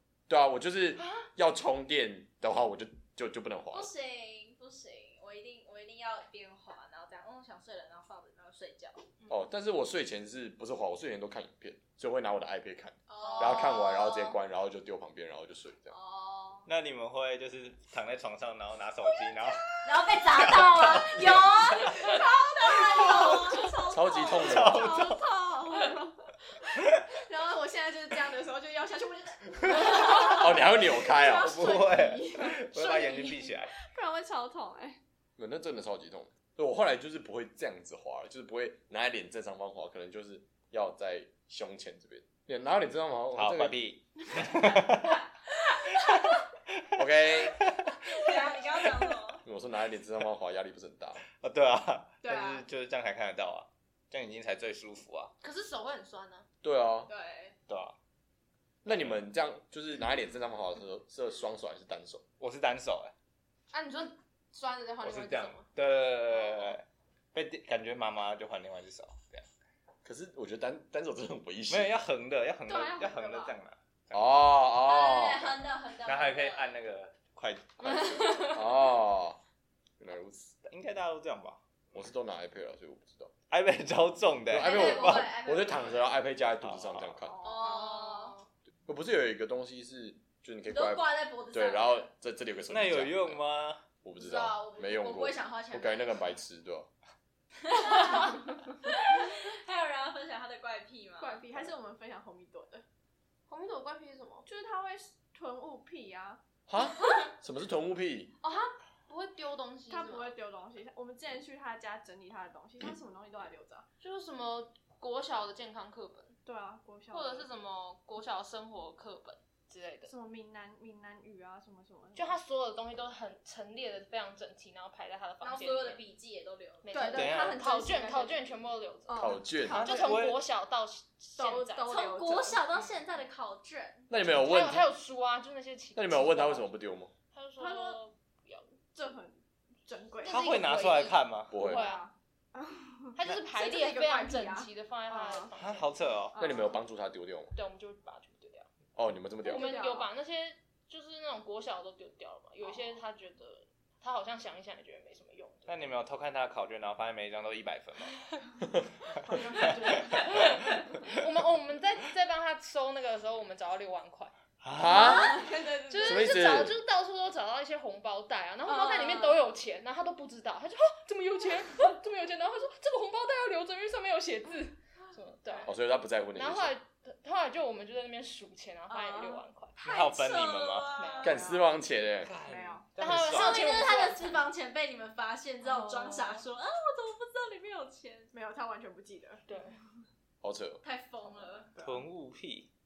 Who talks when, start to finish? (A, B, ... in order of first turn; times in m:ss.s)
0:00.3-0:03.9 A
0:01.0-0:01.2 B
0:03.7-0:09.1 C
0:09.3-0:15.9 A
0:13.1-0:14.3 C
0:15.9-0:16.7 C
0:16.7-0:22.1 D
0:19.8-0:25.9 C
0:22.0-0:23.6 E
0:23.9-0:25.0 A
0:24.4-0:25.2 D
0:24.6-0:25.1 E
0:25.6-0:35.0 E
0:30.1-0:31.6 A
0:31.3-0:33.7 D
0:35.4-0:43.8 A
0:43.3-0:45.2 D
0:46.0-0:46.8 D
0:46.9-0:47.6 A
0:47.4-0:49.1 D
0:48.1-0:49.4 C
0:49.4-0:51.2 A
0:51.4-0:55.3 D
0:52.2-0:52.6 C
0:55.4-0:56.4 B
0:56.6-0:57.1 A
0:57.1-0:57.6 C
0:57.7-0:57.9 D
0:58.8-1:02.2 A
0:58.8-0:59.2 D
1:02.4-1:03.1 D
1:03.7-1:05.7 B
1:05.0-1:09.4 D
1:10.0-1:12.0 A
1:11.7-1:14.5 D
1:12.7-1:13.5 E
1:14.1-1:15.6 A
1:14.7-1:16.8 C
1:16.0-1:18.5 D
1:18.2-1:18.6 B
1:18.4-1:19.4 A
1:20.0-1:20.6 A
1:20.6-1:21.6 D
1:21.9-1:23.3 A
1:23.5-1:25.3 D
1:24.5-1:27.4 A
1:24.5-1:26.0 C
1:26.6-1:27.2 D
1:27.3-1:27.9 E
1:27.4-1:28.4 C
1:27.6-1:28.4 B
1:28.8-1:33.4 A
1:30.7-1:32.1 C
1:32.7-1:33.8 D
1:34.0-1:36.9 A
1:34.2-1:36.2 C
1:37.6-1:41.4 C
1:41.2-1:42.8 E
1:43.5-1:44.5 B
1:44.4-1:46.4 E
1:46.7-1:48.3 A
1:48.4-1:50.3 B
1:49.9-1:53.9 E
1:54.0-1:56.4 B
1:56.4-1:57.5 E
1:57.1-2:00.1 B
2:00.1-2:02.3 E
2:02.1-2:06.0 B
2:05.4-2:07.3 C
2:06.8-2:12.0 B
2:06.9-2:08.3 E
2:07.1-2:07.6 D
2:09.1-2:10.3 E
2:09.2-2:09.8 A
2:09.7-2:10.4 D
2:11.4-2:12.7 E
2:11.9-2:14.1 C
2:14.1-2:14.9 A
2:14.2-2:16.7 B
2:15.9-2:17.1 A
2:17.3-2:18.7 B
2:17.6-2:18.0 E
2:18.9-2:20.7 E
2:20.2-2:22.1 B
2:20.2-2:21.6 D
2:21.5-2:21.9 A
2:21.5-2:25.5 E
2:23.1-2:26.1 B
2:25.6-2:26.4 D
2:26.3-2:26.8 E
2:26.4-2:27.5 A
2:27.5-2:28.7 B
2:29.0-2:29.8 A
2:29.4-2:30.1 E
2:29.4-2:35.9 B
2:35.7-2:38.2 D
2:39.2-2:40.6 E
2:40.1-2:44.3 B
2:44.6-2:45.2 D
2:44.7-2:45.4 A
2:44.9-2:46.3 E
2:45.2-2:45.8 C
2:45.9-2:55.7 B
2:46.0-2:46.8 A
2:55.6-2:56.7 A
2:56.3-2:59.7 B
2:58.9-2:59.4 E
2:59.8-3:01.4 C
2:59.8-3:00.9 D
3:01.0-3:01.4 B
3:01.2-3:01.7 E
3:01.2-3:02.3 A
3:02.2-3:03.9 D
3:02.4-3:02.8 E
3:03.0-3:04.4 B
3:03.3-3:08.3 C
3:05.6-3:06.4 B
3:08.3-3:09.4 E
3:09.5-3:09.7 B
3:10.4-3:10.8 A
3:10.8-3:11.8 C
3:11.8-3:12.0 E
3:11.8-3:12.7 D